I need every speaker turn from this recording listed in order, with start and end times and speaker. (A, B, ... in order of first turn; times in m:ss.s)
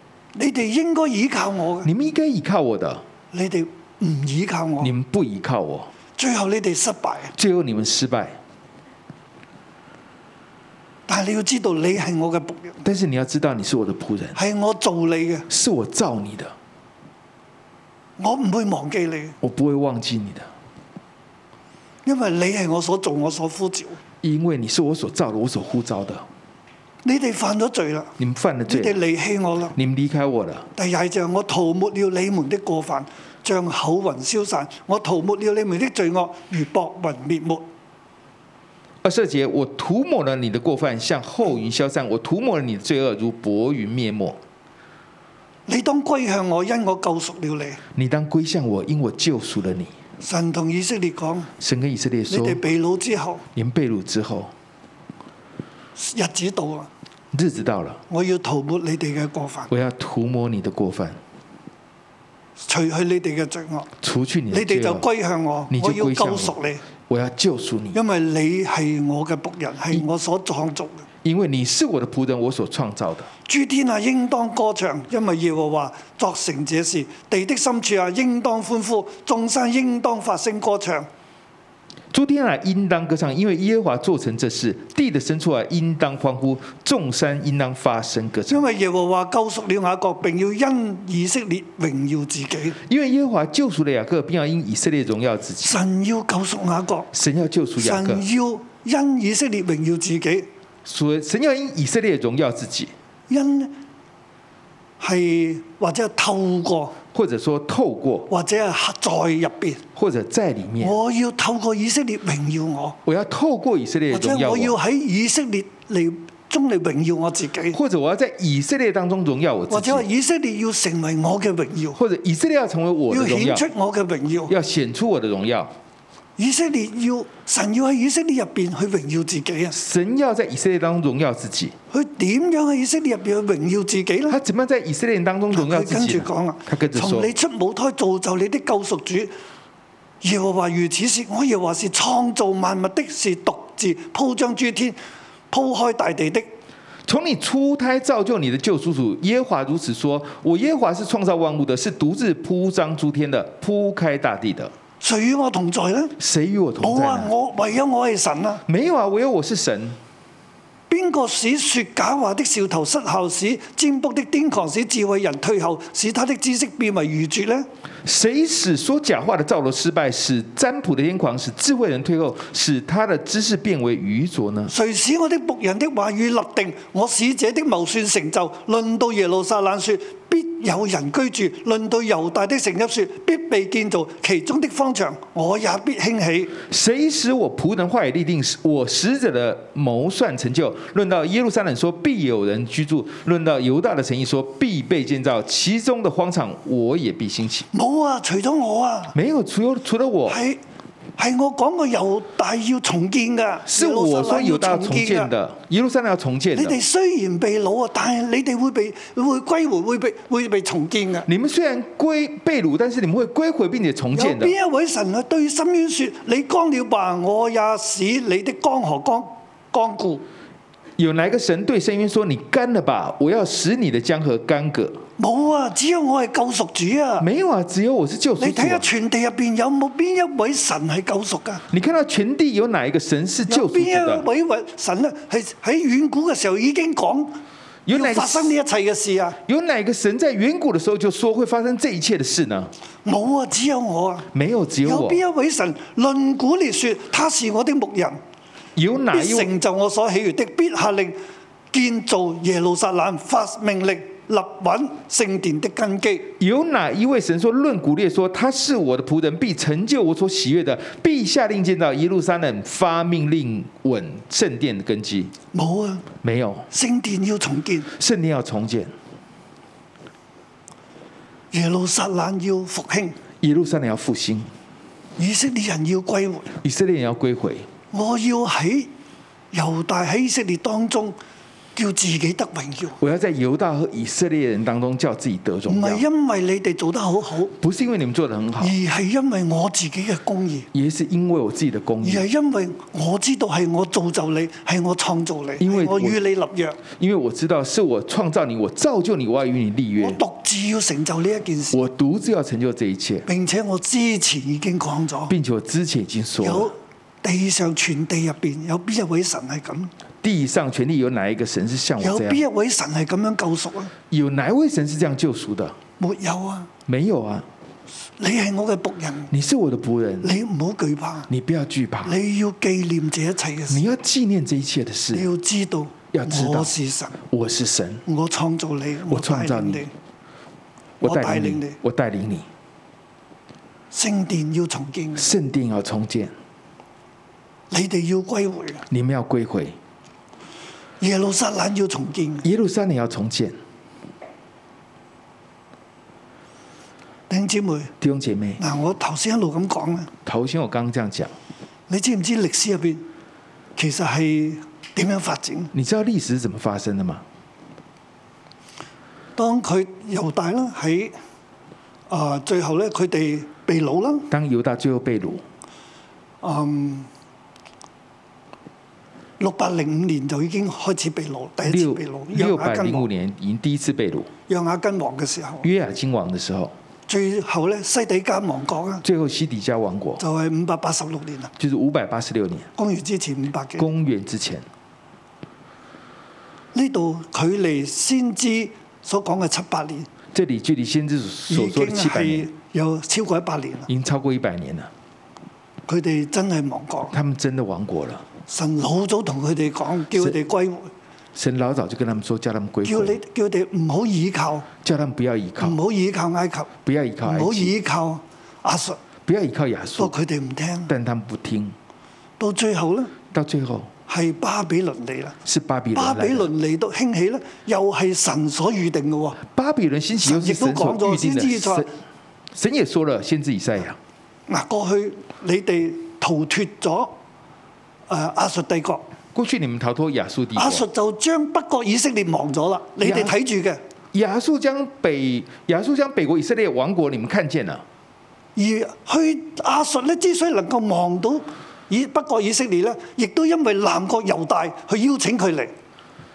0:00.3-0:01.9 A
0:01.8-0:03.0 B
0:03.3-0:04.9 A
0:04.8-0:05.9 B
0:06.2-0:07.3 A
0:07.4-0:08.4 B
0:11.1-0:12.8 A
0:12.8-0:14.4 B
0:14.3-0:15.4 A
0:15.5-0:16.5 B
0:18.2-0:19.3 A
0:19.4-0:20.5 B
0:22.0-0:24.0 A
0:24.2-0:26.3 B
0:27.0-0:28.1 A
0:28.2-0:29.0 B
0:28.7-0:29.7 A
0:29.7-0:30.7 B
0:30.8-0:37.6 A
0:39.0-0:44.4 B
0:45.7-0:47.8 A
0:47.9-0:49.9 B
0:50.2-0:51.5 A
0:51.6-0:52.6 B
0:52.3-0:53.4 A
0:53.5-0:54.5 B
0:56.0-0:56.9 A
0:57.3-0:58.0 B
0:58.1-0:59.7 A
0:59.7-1:01.2 B
1:02.6-1:03.9 A
1:04.0-1:05.1 B
1:04.5-1:06.8 A
1:05.7-1:08.0 B
1:07.9-1:11.0 A
1:11.2-1:13.3 B
1:13.5-1:21.1 A
1:22.1-1:28.6 B
1:28.5-1:32.8 A
1:32.8-1:35.8 B
1:35.6-1:37.1 A
1:37.1-1:38.2 B
1:37.8-1:40.5 A
1:40.8-1:42.9 B
1:43.3-1:43.7 A
1:45.0-1:46.9 A
1:47.1-1:48.3 B
1:48.3-1:49.8 A
1:49.9-1:51.0 B
1:50.8-1:53.0 A
1:53.0-1:54.8 B
1:54.1-1:57.8 A
1:57.7-2:00.0 B
1:59.7-2:02.0 A
2:02.0-2:03.7 B
2:03.1-2:04.5 A
2:04.5-2:05.7 B
2:06.4-2:09.8 A
2:09.7-2:11.7 B
2:11.9-2:14.4 A
2:14.3-2:17.3 B
2:15.5-2:19.3 A
2:20.2-2:25.0 A
2:25.5-2:26.5 A
2:27.0-2:34.7 B
2:35.0-2:36.1 A
2:36.2-2:37.3 B
2:36.8-2:38.6 A
2:38.6-2:40.0 B
2:40.9-2:47.7 A
2:48.0-2:54.7 B
2:54.7-3:06.5 A
3:06.6-3:17.7 B
3:17.7-3:19.1 A
3:19.1-3:20.4 B
3:20.3-3:20.6 A
3:21.2-3:25.3 A
3:23.6-3:26.8 B
3:26.5-3:31.3 A
3:31.3-3:34.5 B
3:34.1-3:40.2 A
3:41.0-3:45.0 B
3:45.2-3:47.3 A
3:47.2-3:48.9 B
3:48.4-3:51.6 A
3:51.7-3:54.3 B
3:53.5-3:57.4 A
3:57.8-3:58.5 B
3:57.9-3:59.4 A
3:59.4-4:02.7 B
4:03.0-4:04.3 A
4:04.3-4:05.2 B
4:04.8-4:08.2 A
4:08.8-4:09.5 B
4:09.1-4:11.2 A
4:11.7-4:16.3 A
4:16.4-4:25.3 B
4:25.5-4:26.0 A
4:26.2-4:26.7 B
4:26.7-4:27.9 A
4:27.9-4:28.9 B
4:31.5-4:33.2 A
4:33.4-4:34.5 B
4:35.2-4:36.5 A
4:36.6-4:37.7 B
4:37.9-4:38.9 A
4:39.5-4:41.2 A
4:41.8-4:43.0 A
4:43.0-4:46.0 B
4:45.7-4:47.5 A
4:47.6-4:48.7 B
4:48.6-4:50.7 A
4:50.7-4:52.2 B
4:52.0-4:56.8 A
4:55.6-4:56.2 B
4:56.9-5:00.2 B
5:00.0-5:01.8 A
5:01.7-5:03.3 B
5:03.3-5:05.3 A
5:05.3-5:06.7 B
5:06.4-5:09.9 A
5:10.2-5:12.4 B
5:12.0-5:13.9 A
5:14.1-5:15.8 B
5:16.0-5:16.7 A
5:16.9-5:17.5 B
5:18.2-5:19.3 A
5:19.3-5:20.3 B
5:20.2-5:21.3 A
5:21.3-5:22.2 B
5:22.0-5:23.8 A
5:23.7-5:25.3 B
5:25.1-5:27.2 A
5:26.1-5:26.7 B
5:27.3-5:28.0 B
5:28.0-5:29.9 A
5:29.1-5:29.9 B
5:31.0-5:32.5 B
5:31.0-5:31.8 A
5:33.9-5:35.3 A
5:35.2-5:36.3 B
5:37.7-5:38.8 A
5:38.9-5:39.8 B
5:41.0-5:42.4 A
5:42.4-5:43.6 B
5:47.3-5:47.9 A
5:48.0-5:48.6 B
5:48.6-5:50.1 A
5:50.2-5:51.3 B
5:51.9-5:53.0 A
5:53.8-5:55.7 A
5:55.7-5:57.2 B
5:59.4-6:01.1 A
6:02.1-6:04.3 A
6:04.3-6:05.4 B
6:06.4-6:07.1 A
6:09.4-6:13.1 A
6:11.6-6:14.3 B
6:14.5-6:15.7 A
6:15.6-6:16.7 B
6:17.1-6:19.0 A
6:19.0-6:20.2 B
6:20.2-6:21.5 A
6:21.6-6:22.7 B
6:22.8-6:23.9 A
6:23.8-6:24.6 B
6:26.7-6:30.1 A
6:30.3-6:32.5 B
6:31.5-6:33.9 A
6:33.9-6:34.9 B
6:35.9-6:37.1 A
6:37.1-6:38.2 B
6:38.5-6:40.9 A
6:41.3-6:43.2 B
6:42.8-6:44.7 A
6:44.8-6:45.8 B
6:45.6-6:46.7 A
6:46.8-6:47.8 B
6:47.2-6:49.0 A
6:49.2-6:50.1 B
6:50.0-6:50.9 A
6:50.9-6:51.7 B
6:52.4-6:53.1 A
6:53.3-6:53.9 B
6:54.1-6:55.4 A
6:55.4-6:56.5 B
6:55.9-6:59.4 A
6:59.4-7:01.9 B
7:00.2-7:01.9 A
7:02.5-7:04.0 B
7:04.5-7:07.2 A
7:08.1-7:09.0 A
7:09.3-7:10.8 B
7:10.5-7:13.8 A
7:13.0-7:13.3 B
7:14.1-7:17.8 B
7:18.6-7:25.7 A